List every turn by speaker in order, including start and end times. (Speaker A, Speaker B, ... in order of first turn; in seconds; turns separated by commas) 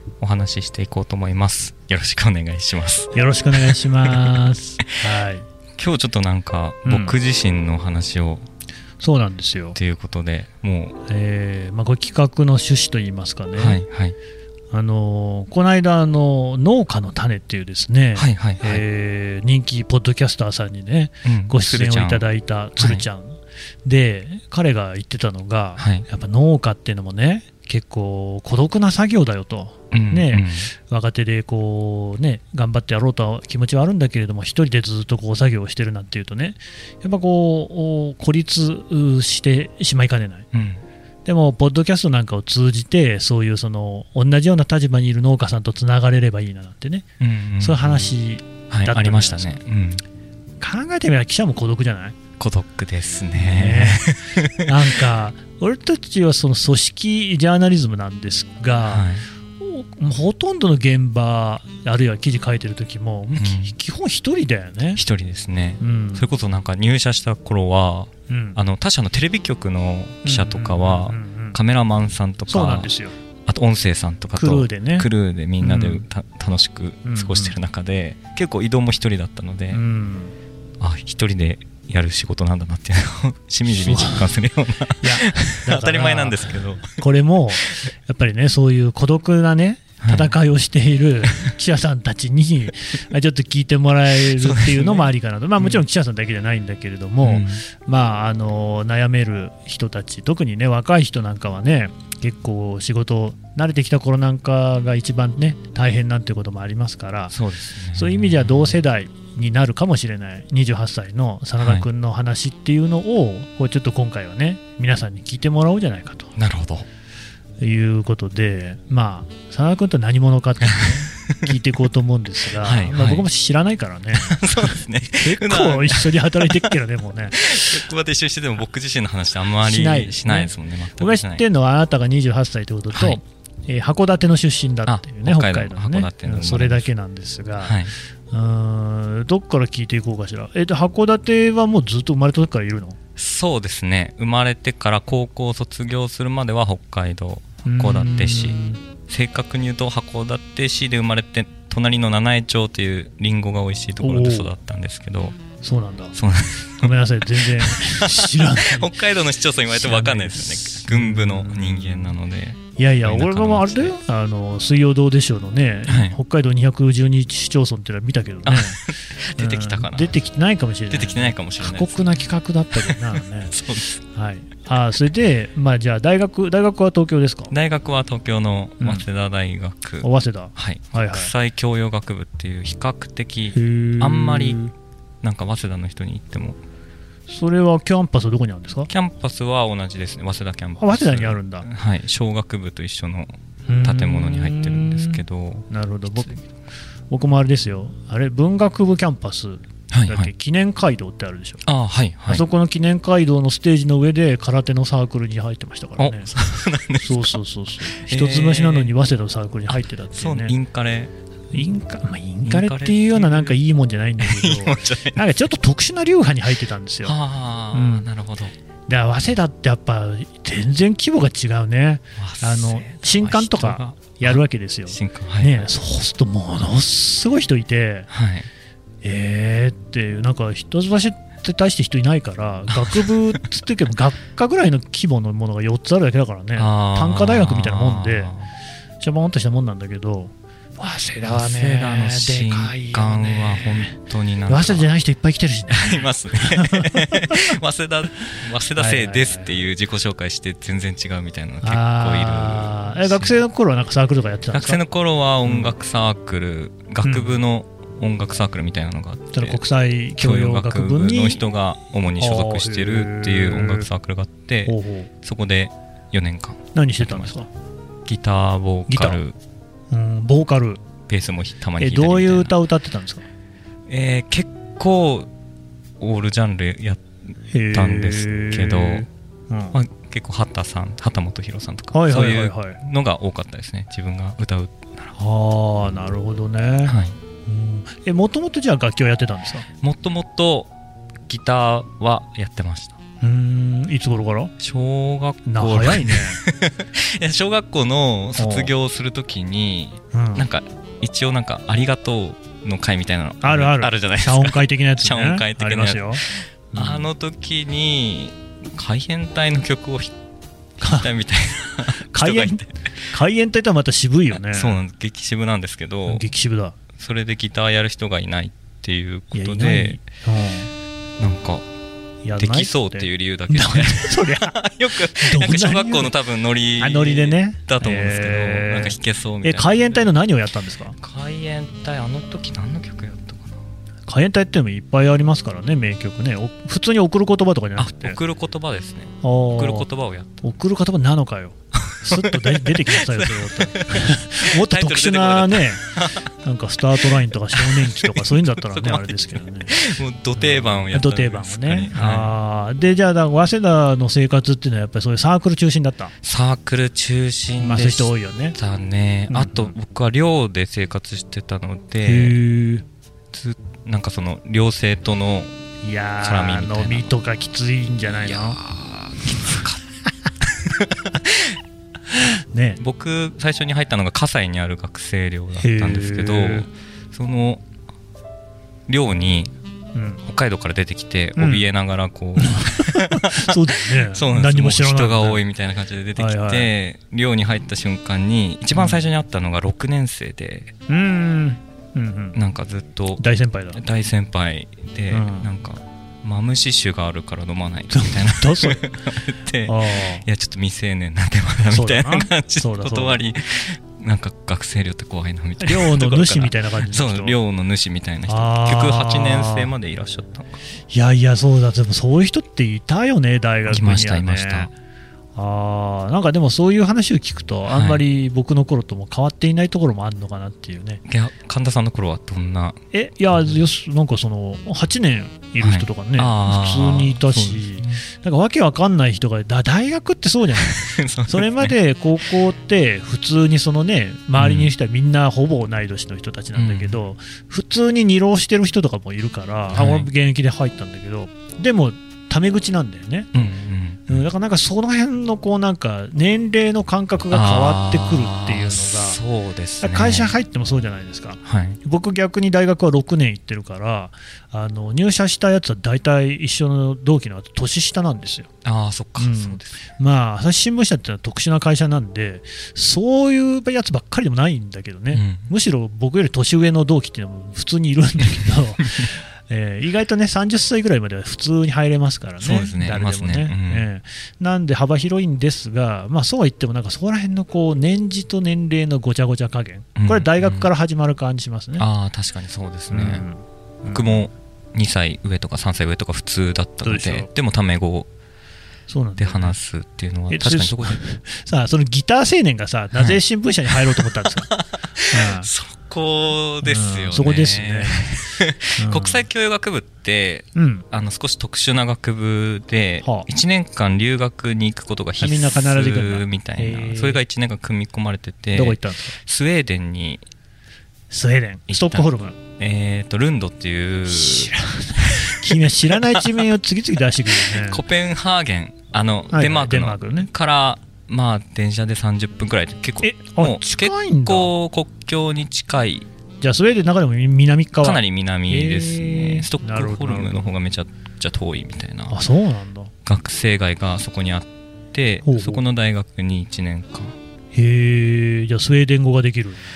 Speaker A: 0.2-5.0, Speaker B: 3.1-5.5, Speaker A: 5.8-8.5, Speaker B: 6.8-7.2, Speaker B: 9.0-9.8, Speaker A: 9.8-11.0, Speaker B: 11.1-13.8, Speaker A: 13.6-14.2, Speaker B: 14.7-40.5, Speaker A: 18.1-18.8, Speaker A: 21.2-23.1, Speaker A: 25.8-26.1, Speaker A: 29.9-30.7, Speaker A: 40.5-40.8, Speaker B: 41.2-47.0, Speaker A: 47.2-48.1, Speaker B: 47.6-49.6, Speaker A: 48.7-50.0, Speaker B: 50.6-52.2, Speaker A: 52.4-54.7, Speaker B: 53.3-65.0, Speaker A: 58.9-59.2, Speaker A: 63.3-63.8, Speaker A: 65.0-72.9, Speaker B: 65.8-66.3, Speaker B: 68.3-68.6, Speaker B: 70.2-71.6, Speaker B: 72.5-73.1, Speaker A: 73.5-79.8, Speaker B: 74.3-75.1, Speaker B: 75.6-76.1, Speaker B: 77.0-77.6, Speaker B: 79.7-80.3, Speaker A: 80.8-87.0, Speaker B: 83.7-84.3, Speaker B: 85.0-107.4, Speaker A: 90.0-90.3, Speaker A: 94.2-95.8, Speaker A: 97.2-97.6, Speaker A: 107.3-108.8, Speaker B: 107.9-116.3, Speaker A: 111.6-111.8, Speaker A: 116.4-116.9, Speaker B: 117.6-127.5, Speaker A: 120.7-121.6, Speaker A: 122.6-123.3, Speaker A: 124.1-126.7, Speaker A: 127.3-131.4, Speaker B: 129.6-143.0, Speaker A: 132.9-133.2, Speaker A: 134.9-136.9, Speaker A: 137.6-137.9, Speaker A: 143.2-148.6, Speaker B: 147.7-148.8, Speaker A: 149.1-155.4, Speaker B: 154.0-154.5, Speaker B: 155.6-156.2, Speaker A: 156.2-163.9, Speaker B: 156.8-159.0, Speaker B: 159.7-162.1, Speaker B: 162.8-168.8, Speaker A: 165.9-166.2, Speaker A: 168.4-170.1, Speaker B: 169.4-173.5, Speaker A: 170.9-172.2, Speaker A: 172.7-174.0, Speaker B: 174.1-177.5, Speaker A: 177.5-184.6, Speaker B: 178.8-179.0, Speaker B: 180.0-181.3, Speaker B: 183.5-184.7, Speaker A: 185.2-186.6, Speaker B: 187.3-188.9, Speaker A: 188.9-195.7, Speaker B: 190.8-191.7, Speaker B: 193.7-196.4, Speaker B: 197.1-201.6, Speaker A: 199.9-200.3, Speaker A: 201.7-202.5, Speaker B: 202.3-206.3, Speaker A: 206.0-208.9, Speaker B: 207.0-210.5, Speaker A: 209.7-211.1, Speaker B: 211.5-217.2, Speaker A: 212.4-213.6, Speaker A: 214.2-215.3, Speaker A: 217.0-218.5, Speaker B: 217.7-218.1, Speaker B: 218.9-228.1, Speaker A: 222.2-225.7, Speaker A: 228.1-228.5, Speaker B: 229.0-238.3, Speaker A: 232.7-233.2, Speaker A: 236.5-238.5, Speaker B: 239.0-243.9, Speaker A: 241.3-244.9, Speaker B: 244.5-247.5, Speaker A: 245.7-253.4, Speaker B: 248.8-249.5, Speaker B: 251.6-254.8, Speaker A: 254.5-259.6, Speaker B: 255.4-255.7, Speaker B: 257.0-257.4, Speaker B: 259.3-261.4, Speaker A: 260.2-267.4, Speaker B: 262.2-263.9, Speaker B: 264.6-265.1, Speaker B: 266.8-267.5, Speaker A: 268.1-269.4, Speaker B: 268.9-269.2, Speaker B: 269.9-270.8, Speaker A: 271.1-272.5, Speaker B: 271.8-273.2, Speaker A: 273.9-275.3, Speaker A: 276.0-277.0, Speaker B: 277.5-279.8, Speaker A: 277.7-279.1, Speaker A: 279.7-285.1, Speaker B: 281.9-282.8, Speaker B: 285.1-289.6, Speaker A: 286.8-287.1, Speaker A: 289.8-290.7, Speaker A: 291.3-293.0, Speaker B: 293.2-294.5, Speaker A: 294.6-310.1, Speaker B: 295.4-296.4, Speaker B: 298.4-298.7, Speaker B: 300.1-300.5, Speaker B: 303.4-307.1, Speaker A: 310.8-312.9, Speaker B: 310.8-311.1, Speaker B: 312.0-314.8, Speaker A: 314.5-316.2, Speaker B: 316.1-316.8, Speaker A: 317.0-320.0, Speaker B: 319.3-320.7, Speaker A: 321.2-321.6, Speaker B: 322.2-324.6, Speaker A: 322.4-330.1, Speaker B: 325.1-326.1, Speaker B: 326.8-331.0, Speaker A: 331.0-333.6, Speaker B: 334.1-338.2, Speaker A: 337.8-340.3, Speaker B: 339.2-339.9, Speaker B: 340.4-349.8, Speaker A: 341.9-346.3, Speaker A: 347.5-352.4, Speaker B: 350.4-356.1, Speaker A: 356.2-362.4, Speaker B: 357.6-358.6, Speaker B: 359.3-359.7, Speaker B: 362.0-362.9, Speaker A: 363.3-365.5, Speaker B: 365.8-368.6, Speaker A: 366.2-367.1, Speaker A: 368.1-369.8, Speaker A: 370.4-371.6, Speaker B: 372.1-372.8, Speaker A: 372.8-377.6, Speaker B: 375.6-376.7, Speaker A: 378.9-379.5, Speaker B: 379.9-380.2, Speaker A: 380.2-390.7, Speaker B: 381.4-381.7, Speaker B: 382.4-385.4, Speaker B: 386.1-386.7, Speaker B: 388.7-389.0, Speaker B: 390.9-392.4, Speaker A: 392.4-393.2, Speaker B: 393.2-393.8, Speaker A: 393.8-410.6, Speaker B: 395.1-395.5, Speaker B: 397.9-398.8, Speaker B: 399.6-400.2, Speaker B: 401.7-403.2, Speaker B: 405.6-407.4, Speaker B: 408.3-409.7, Speaker B: 410.9-414.7, Speaker A: 413.7-414.7, Speaker B: 415.4-421.0, Speaker A: 417.7-418.0, Speaker A: 421.1-422.8, Speaker B: 422.9-443.3, Speaker A: 425.6-428.0, Speaker A: 430.6-431.7, Speaker A: 434.4-434.7, Speaker A: 436.5-436.9, Speaker A: 439.7-440.1, Speaker A: 443.3-444.2, Speaker B: 444.1-449.2, Speaker A: 447.3-450.4, Speaker B: 449.8-458.5, Speaker A: 451.4-451.8, Speaker A: 458.6-459.8, Speaker B: 459.2-481.9, Speaker A: 465.1-465.5, Speaker A: 472.4-473.9, Speaker A: 480.0-480.7, Speaker A: 481.8-483.2, Speaker B: 482.9-484.2, Speaker A: 483.9-488.1, Speaker B: 486.8-487.3, Speaker B: 488.9-489.6, Speaker A: 489.2-491.0, Speaker B: 490.3-494.5, Speaker A: 492.9-493.2, Speaker A: 493.7-510.2, Speaker B: 495.1-495.5, Speaker B: 496.6-498.1, Speaker B: 498.8-499.3, Speaker B: 500.5-500.9, Speaker B: 503.0-503.3, Speaker B: 505.2-507.2, Speaker B: 508.5-509.1, Speaker B: 511.1-512.4, Speaker A: 511.7-516.4, Speaker B: 514.1-517.8, Speaker A: 517.3-526.1, Speaker B: 519.3-520.3, Speaker B: 523.0-524.5, Speaker B: 526.4-530.5, Speaker A: 527.8-532.2, Speaker B: 532.1-532.9, Speaker A: 533.0-537.1, Speaker B: 535.2-535.6, Speaker B: 537.5-539.6